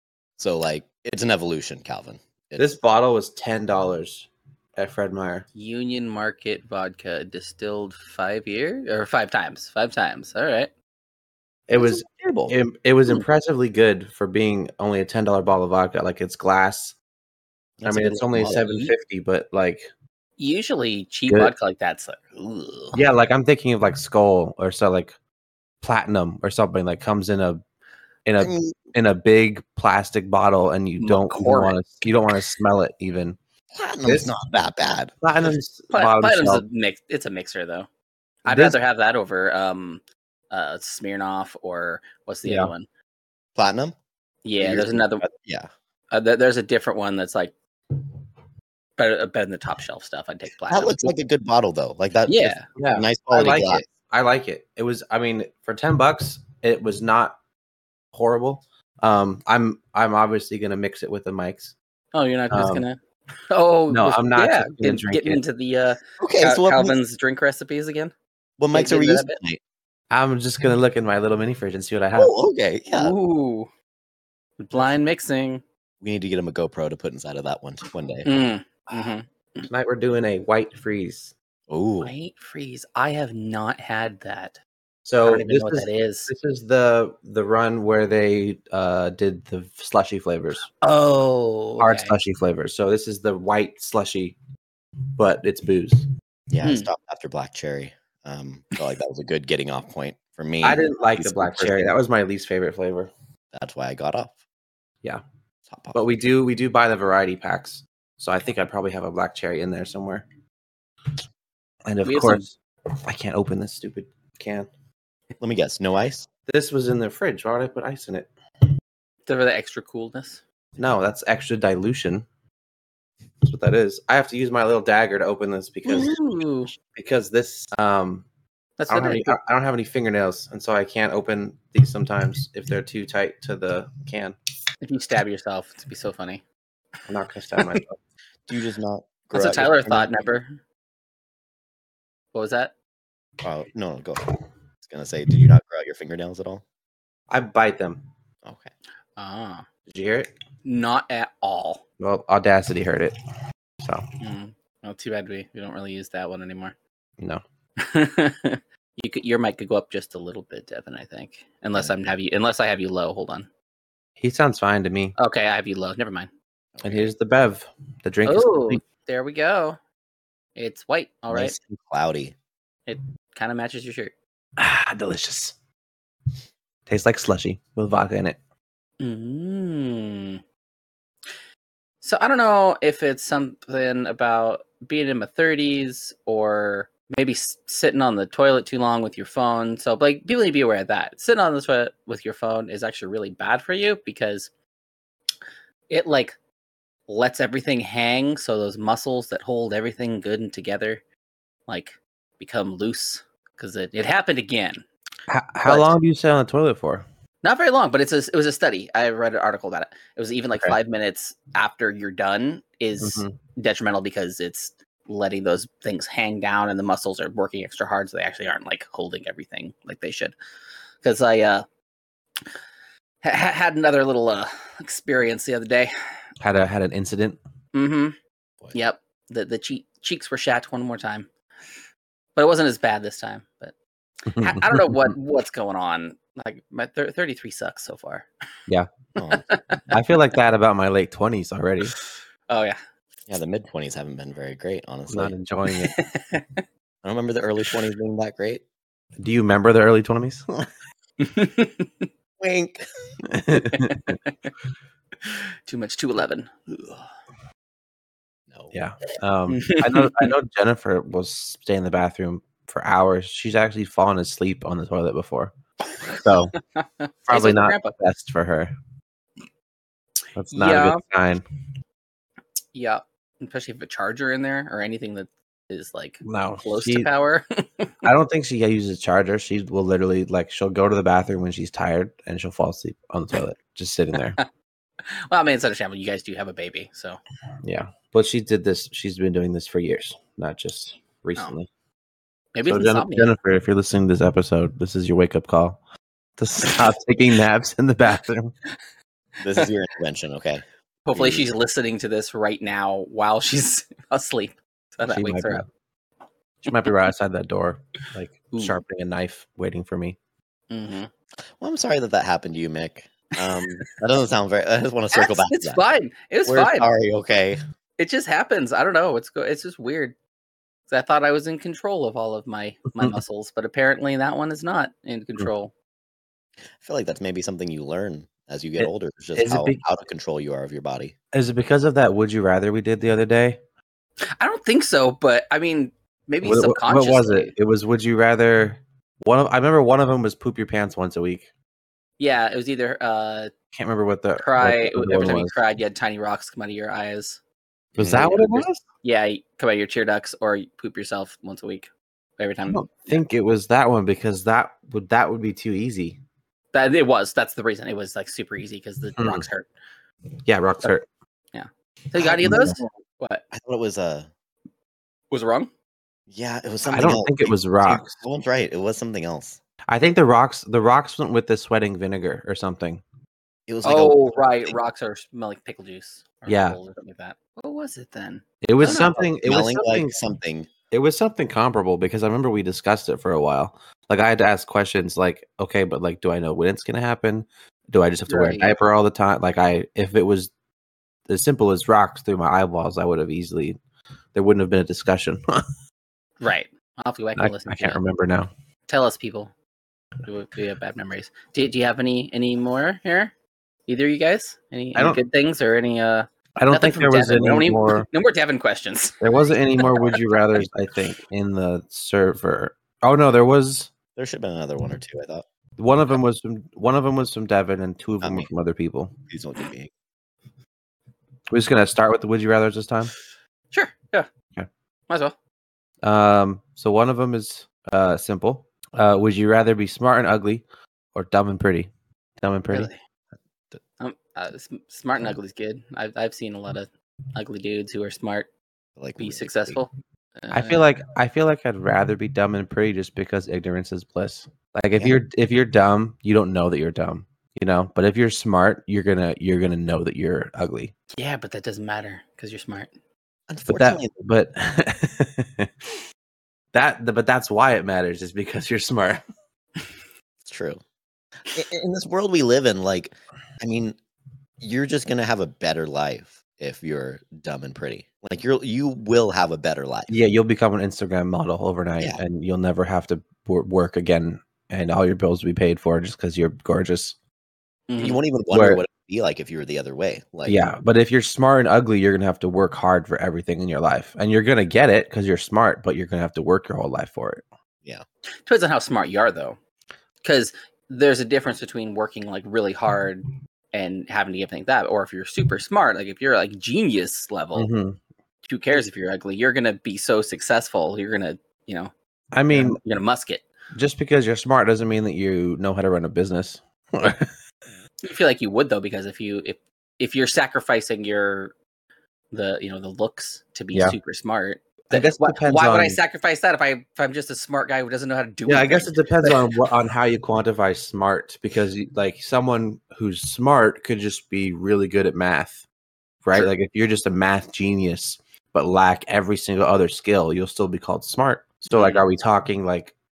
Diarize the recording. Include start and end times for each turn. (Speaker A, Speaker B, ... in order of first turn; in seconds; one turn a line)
Speaker A: 0.4-2.8
Speaker B: 2.6-5.5
Speaker C: 5.5-10.7
Speaker B: 11.7-16.9
Speaker A: 11.7-12.6
Speaker A: 17.8-18.9
Speaker B: 17.8-19.9
Speaker C: 20.4-23.0
Speaker B: 21.3-21.5
Speaker B: 22.9-25.1
Speaker B: 25.8-27.6
Speaker B: 28.2-33.4
Speaker A: 28.4-28.8
Speaker C: 31.0-32.4
Speaker A: 33.7-35.1
Speaker B: 35.2-36.6
Speaker C: 35.9-37.9
Speaker C: 38.4-42.9
Speaker B: 38.5-38.8
Speaker B: 42.4-42.7
Speaker A: 43.5-43.9
Speaker C: 44.4-45.2
Speaker A: 44.6-45.7
Speaker C: 46.1-47.5
Speaker C: 49.0-51.1
Speaker A: 50.7-53.9
Speaker C: 52.3-52.7
Speaker B: 52.8-57.4
Speaker B: 58.1-61.7
Speaker C: 62.1-63.0
Speaker B: 62.5-62.8
Speaker C: 63.5-68.1
Speaker B: 63.9-65.4
Speaker A: 66.2-67.0
Speaker A: 68.6-69.6
Speaker C: 68.7-69.4
Speaker B: 70.1-72.3
Speaker A: 72.1-73.1
Speaker C: 72.9-73.7
Speaker C: 74.6-75.6
Speaker A: 76.0-78.5
Speaker C: 78.2-79.7
Speaker B: 78.9-81.3
Speaker A: 81.7-82.1
Speaker C: 82.0-84.6
Speaker B: 85.0-90.7
Speaker C: 85.2-86.3
Speaker C: 90.8-92.1
Speaker B: 91.8-94.3
Speaker B: 95.2-96.1
Speaker A: 96.5-101.9
Speaker C: 96.6-96.9
Speaker B: 100.6-103.1
Speaker A: 103.5-104.3
Speaker A: 105.7-106.0
Speaker B: 105.9-110.2
Speaker B: 111.8-114.7
Speaker C: 112.0-112.4
Speaker A: 115.4-116.3
Speaker B: 116.5-118.3
Speaker C: 119.2-120.4
Speaker A: 120.8-121.0
Speaker B: 120.8-122.2
Speaker B: 123.4-126.2
Speaker C: 125.8-126.7
Speaker B: 126.8-128.2
Speaker C: 128.8-129.4
Speaker B: 128.9-134.3
Speaker C: 134.8-136.4
Speaker B: 137.1-138.0
Speaker A: 138.5-140.3
Speaker C: 139.3-140.6
Speaker C: 142.3-142.7
Speaker A: 143.4-144.2
Speaker A: 144.8-146.6
Speaker B: 147.3-148.0
Speaker A: 148.4-148.7
Speaker C: 149.2-149.7
Speaker B: 149.9-150.3
Speaker C: 150.6-151.8
Speaker B: 152.0-153.2
Speaker C: 154.2-156.7
Speaker C: 157.8-163.5
Speaker B: 164.2-165.2
Speaker C: 165.2-166.3
Speaker A: 166.7-167.1
Speaker B: 166.8-168.8
Speaker C: 168.2-169.8
Speaker C: 170.6-171.6
Speaker A: 171.3-172.3
Speaker C: 172.9-174.1
Speaker B: 174.6-175.5
Speaker B: 176.9-178.4
Speaker C: 179.0-180.4
Speaker C: 182.0-194.5
Speaker C: 195.9-196.3
Speaker C: 197.1-201.0
Speaker C: 201.7-204.8
Speaker B: 205.3-207.0
Speaker C: 205.6-205.9
Speaker C: 207.4-220.3
Speaker B: 213.0-213.3
Speaker C: 221.0-221.6
Speaker C: 223.2-225.9
Speaker B: 226.4-227.4
Speaker C: 227.7-228.2
Speaker C: 228.7-231.3
Speaker C: 232.3-233.7
Speaker C: 234.3-238.3
Speaker B: 234.3-235.1
Speaker A: 239.2-239.4
Speaker C: 239.5-239.9
Speaker B: 239.9-241.9
Speaker C: 241.9-242.8
Speaker A: 243.3-245.3
Speaker B: 245.1-246.0
Speaker C: 245.7-246.6
Speaker A: 247.0-248.6
Speaker B: 249.2-250.7
Speaker C: 251.2-252.1
Speaker A: 252.4-252.8
Speaker B: 253.2-254.2
Speaker C: 253.5-254.5
Speaker C: 255.2-257.1
Speaker A: 258.5-258.8
Speaker B: 258.7-265.5
Speaker C: 259.5-260.3
Speaker C: 266.0-267.9
Speaker B: 266.0-266.5
Speaker B: 267.3-268.7
Speaker B: 270.4-271.4
Speaker C: 270.5-271.0
Speaker C: 272.7-277.9
Speaker B: 276.2-277.1
Speaker B: 278.0-284.4
Speaker C: 285.1-287.2
Speaker B: 287.6-291.7
Speaker C: 292.5-293.3
Speaker B: 292.6-295.8
Speaker B: 296.4-298.5
Speaker C: 296.6-296.9
Speaker A: 299.4-300.6
Speaker C: 301.1-305.6
Speaker A: 301.1-301.5
Speaker B: 305.1-305.6
Speaker B: 306.6-310.2
Speaker C: 308.5-308.8
Speaker C: 310.7-311.1
Speaker A: 311.6-315.8
Speaker C: 315.1-316.9
Speaker A: 316.4-317.6
Speaker C: 318.0-320.1
Speaker C: 320.9-325.7
Speaker A: 326.8-331.1
Speaker B: 328.8-329.8
Speaker B: 331.3-333.6
Speaker C: 334.4-337.5
Speaker B: 336.4-341.5
Speaker C: 342.2-343.5
Speaker B: 343.7-345.5
Speaker C: 344.4-347.4
Speaker A: 347.9-348.3
Speaker B: 348.0-348.8
Speaker C: 348.1-353.2
Speaker B: 352.7-356.2
Speaker C: 356.7-359.7
Speaker B: 359.2-359.4
Speaker B: 360.4-361.0
Speaker C: 361.5-363.4
Speaker A: 362.2-362.6
Speaker B: 362.4-362.8
Speaker A: 363.5-364.3
Speaker C: 365.3-365.7
Speaker A: 366.3-369.6
Speaker B: 366.8-368.1
Speaker B: 369.9-373.0
Speaker A: 373.7-374.8
Speaker C: 373.8-379.2
Speaker B: 376.5-376.8
Speaker B: 378.6-380.2
Speaker A: 379.4-380.7
Speaker B: 380.9-390.5
Speaker C: 388.3-388.7
Speaker B: 391.3-393.8
Speaker B: 394.3-395.6
Speaker C: 396.4-398.0
Speaker B: 397.4-398.5
Speaker C: 398.9-399.5
Speaker C: 400.2-403.3
Speaker C: 403.9-409.2
Speaker B: 404.9-405.2
Speaker B: 406.6-408.1
Speaker B: 409.2-413.9
Speaker C: 409.8-410.2
Speaker A: 414.1-415.4
Speaker B: 415.8-419.1
Speaker A: 418.2-418.5
Speaker A: 419.3-419.9
Speaker B: 421.5-423.1
Speaker C: 423.7-424.3
Speaker C: 425.1-425.4
Speaker B: 426.0-430.6
Speaker B: 431.1-431.9
Speaker B: 432.4-432.9
Speaker C: 432.7-433.0
Speaker C: 434.0-438.5
Speaker A: 439.0-439.8
Speaker C: 439.2-440.9
Speaker B: 440.5-450.9
Speaker C: 451.1-452.9
Speaker A: 453.5-454.1
Speaker B: 453.7-455.9
Speaker B: 456.7-459.2
Speaker A: 460.4-460.8
Speaker A: 461.5-464.0
Speaker A: 464.6-470.1
Speaker B: 470.1-477.1
Speaker C: 477.9-478.2
Speaker A: 478.0-480.7
Speaker B: 478.5-478.8
Speaker B: 480.4-487.4
Speaker C: 488.4-489.6
Speaker C: 490.2-497.7
Speaker B: 497.5-498.0
Speaker C: 498.4-501.9
Speaker B: 502.3-502.8
Speaker C: 502.5-503.4
Speaker B: 503.7-507.3
Speaker C: 508.0-511.5
Speaker C: 512.3-519.4
Speaker B: 514.9-516.0
Speaker B: 518.5-525.6
Speaker B: 526.2-532.9
Speaker C: 531.7-532.0